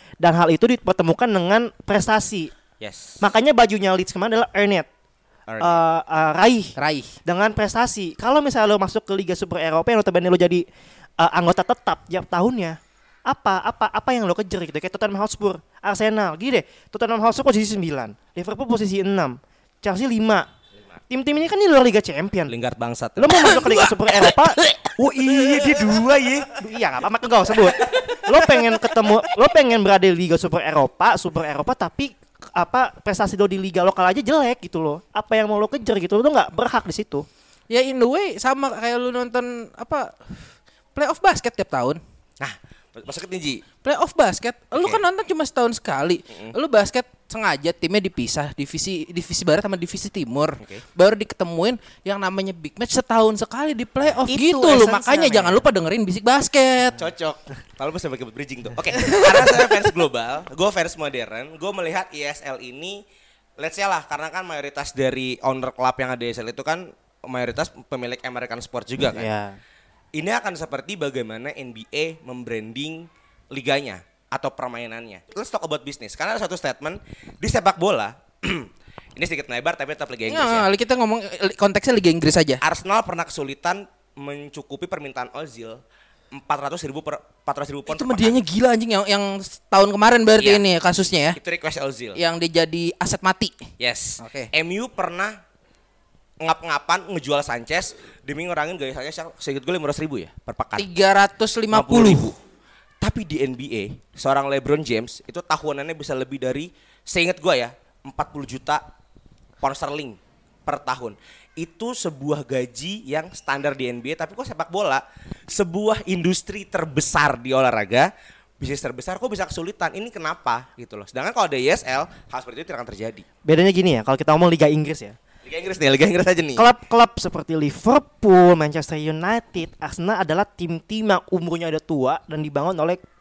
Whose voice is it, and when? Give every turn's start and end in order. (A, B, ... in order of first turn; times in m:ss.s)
0:00.2-0:02.5 A
0:02.8-0:03.2 B
0:03.2-0:04.9 A
0:05.5-0:05.8 B
0:05.6-0:06.8 A
0:06.8-0:07.1 C
0:07.3-0:10.6 A
0:11.2-0:20.5 A
0:21.1-0:22.5 A
0:22.5-0:23.9 B
0:23.2-0:24.6 A
0:24.8-0:26.5 B
0:26.5-0:37.3 A
0:37.7-0:42.0 C
0:42.4-0:43.6 B
0:43.8-0:57.0 C
0:46.3-0:46.6 B
0:54.3-0:55.6 A
0:57.0-1:03.0 B
0:59.0-0:59.7 C
1:03.6-1:09.3 B
1:09.0-1:09.6 A
1:10.2-1:20.7 B
1:20.3-1:22.6 C
1:22.6-1:25.8 B
1:26.3-1:28.4 B
1:27.9-1:31.4 C
1:31.4-1:32.2 B
1:32.2-1:33.6 C
1:33.8-1:35.4 B
1:34.2-1:34.5 C
1:36.4-1:40.9 B
1:40.8-1:42.3 C
1:41.7-1:42.4 B
1:43.0-1:48.8 B
1:49.6-2:03.3 B
2:03.5-2:05.2 A
2:05.4-2:06.7 B
2:06.6-2:13.0 A